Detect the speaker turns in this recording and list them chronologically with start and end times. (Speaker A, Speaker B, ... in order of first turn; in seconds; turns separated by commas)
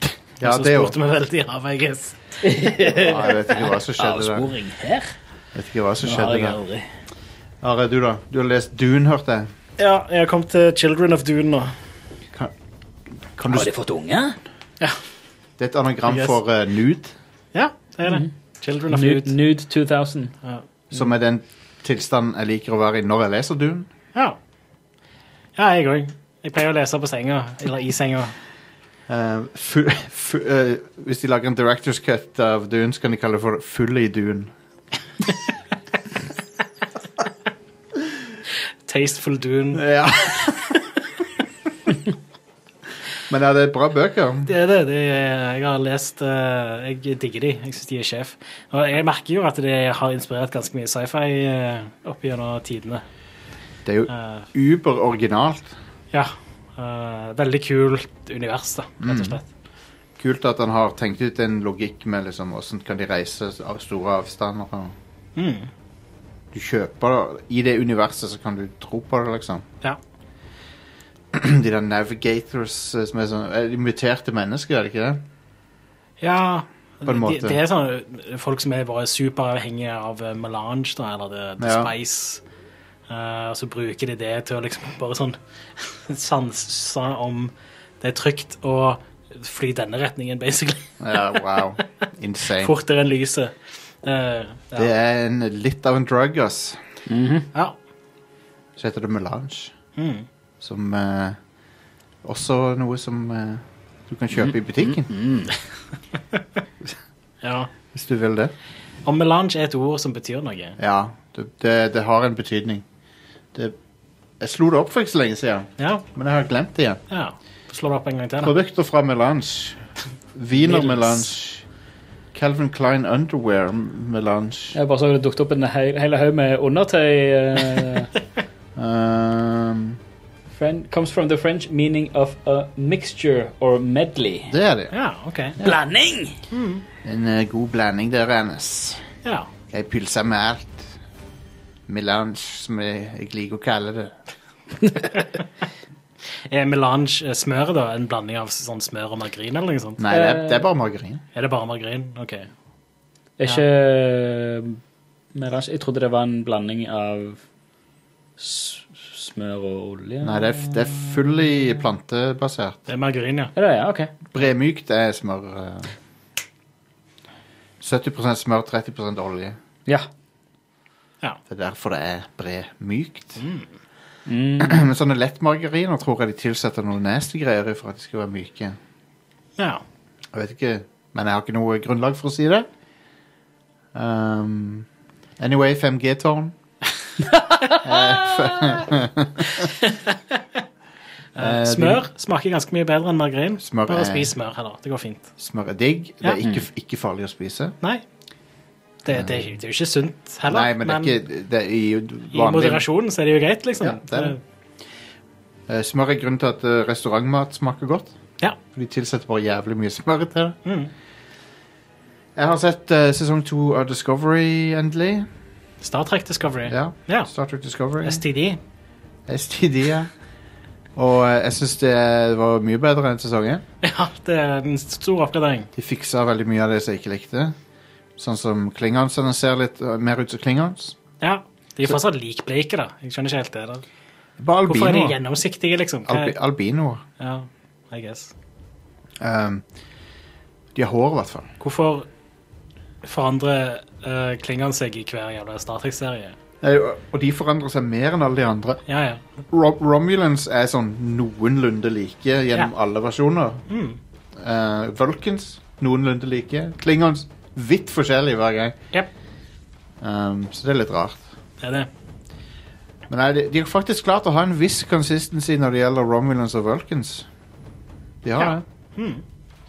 Speaker A: 0.4-0.9, Speaker B: 0.4-2.4, Speaker C: 2.4-5.1, Speaker A: 3.0-4.5, Speaker A: 5.5-6.6, Speaker C: 6.0-6.8, Speaker A: 7.6-9.5, Speaker B: 9.8-11.7, Speaker A: 13.3-13.7, Speaker C: 13.5-14.4, Speaker A: 15.6-17.1, Speaker B: 16.1-16.4, Speaker B: 17.5-19.3, Speaker C: 18.9-20.3, Speaker A: 20.9-23.9, Speaker B: 25.6-28.3, Speaker A: 29.1-34.5, Speaker B: 38.9-39.9, Speaker A: 39.7-40.8, Speaker A: 43.3-44.5, Speaker B: 44.5-53.0, Speaker A: 53.8-55.7, Speaker B: 54.1-54.5, Speaker B: 56.1-59.4, Speaker A: 59.0-59.4, Speaker A: 60.2-65.0, Speaker B: 65.3-65.7, Speaker A: 66.5-69.6, Speaker A: 71.3-75.2, Speaker B: 76.2-82.4, Speaker A: 77.0-77.6, Speaker A: 81.6-81.9, Speaker B: 83.1-91.6, Speaker A: 91.0-92.7, Speaker B: 92.6-94.9, Speaker A: 94.7-96.8, Speaker C: 97.1-97.5, Speaker A: 98.8-99.7, Speaker B: 100.0-100.2, Speaker A: 100.6-101.4, Speaker A: 102.2-105.1, Speaker C: 104.4-105.5, Speaker B: 107.4-107.7, Speaker A: 107.9-108.5, Speaker B: 109.0-110.8, Speaker A: 110.8-112.8, Speaker A: 114.4-117.0, Speaker B: 115.8-116.0, Speaker B: 117.1-118.5, Speaker A: 118.4-119.8, Speaker A: 120.3-121.6, Speaker B: 120.7-121.0, Speaker A: 122.3-124.8, Speaker C: 124.7-128.1, Speaker A: 128.8-130.0, Speaker C: 130.5-134.5, Speaker A: 134.5-134.9, Speaker B: 134.9-135.6, Speaker C: 135.6-136.4, Speaker B: 136.5-136.8, Speaker A: 137.0-139.0, Speaker A: 139.7-140.9, Speaker A: 141.9-144.2, Speaker C: 144.8-145.1, Speaker B: 146.5-150.0, Speaker A: 150.0-151.2, Speaker C: 150.1-150.7, Speaker B: 151.3-152.5, Speaker C: 153.4-154.8, Speaker C: 155.3-157.4, Speaker C: 158.4-161.1, Speaker A: 160.2-162.8, Speaker B: 162.9-163.5, Speaker C: 163.5-164.1, Speaker A: 164.3-165.9, Speaker A: 167.8-169.6, Speaker A: 171.5-173.4, Speaker B: 173.4-173.7, Speaker C: 174.2-174.8, Speaker A: 174.6-178.8, Speaker A: 180.3-182.7, Speaker A: 183.9-184.9, Speaker A: 185.4-186.5, Speaker C: 187.3-187.8, Speaker A: 187.8-189.7, Speaker B: 189.8-190.4, Speaker B: 191.3-195.3, Speaker A: 191.4-192.0, Speaker A: 193.6-194.3, Speaker A: 195.4-197.8, Speaker B: 199.0-201.2, Speaker A: 199.1-199.4, Speaker A: 200.5-202.8, Speaker B: 202.3-204.4, Speaker A: 203.8-204.3, Speaker A: 205.7-208.1, Speaker A: 208.7-210.6, Speaker B: 210.7-210.9, Speaker A: 212.3-215.3, Speaker B: 215.8-217.3, Speaker A: 216.7-218.2, Speaker B: 218.0-218.6, Speaker A: 219.3-220.1, Speaker A: 220.9-223.6, Speaker B: 223.8-225.7, Speaker A: 225.8-227.5, Speaker A: 228.2-231.0, Speaker B: 231.2-233.8, Speaker A: 234.4-235.2, Speaker B: 234.7-236.3, Speaker A: 236.1-237.0, Speaker B: 237.2-238.3, Speaker A: 239.2-239.6, Speaker A: 240.7-241.5, Speaker B: 241.6-242.1, Speaker B: 243.0-246.3, Speaker A: 246.6-248.8, Speaker B: 248.9-249.2, Speaker A: 249.5-253.6, Speaker B: 253.7-254.0, Speaker A: 254.3-258.8, Speaker A: 260.0-261.2, Speaker B: 261.6-261.9, Speaker A: 263.1-267.3, Speaker A: 268.2-268.6, Speaker B: 268.4-269.2